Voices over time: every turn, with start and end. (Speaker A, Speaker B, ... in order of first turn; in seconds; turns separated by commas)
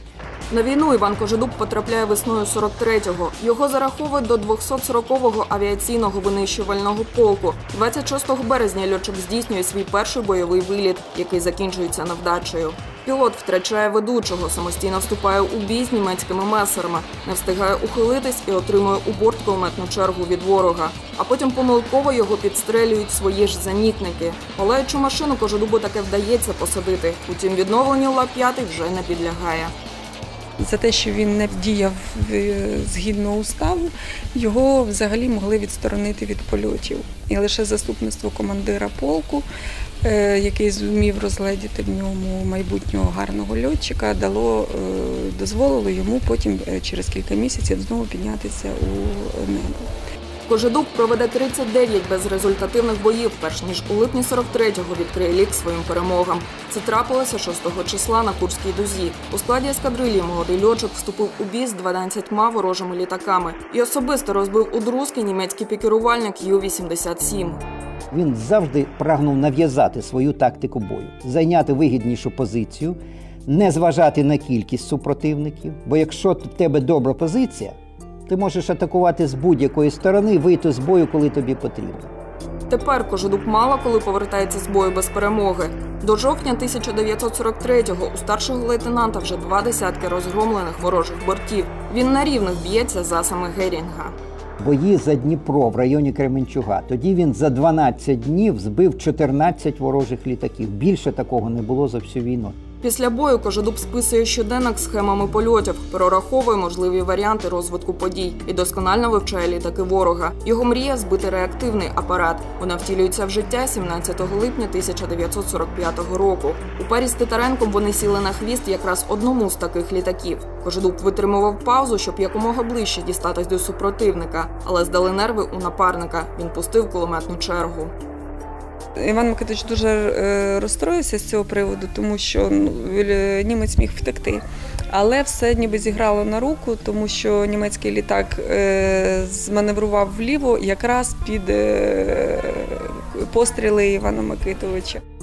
Speaker A: 0.5-29.7, Speaker B: 30.6-39.5, Speaker B: 40.0-49.9, Speaker A: 50.5-67.6, Speaker C: 68.1-77.8, Speaker C: 78.3-82.1, Speaker A: 82.7-94.2, Speaker C: 94.6-102.6, Speaker A: 102.8-127.9, Speaker B: 129.0-145.0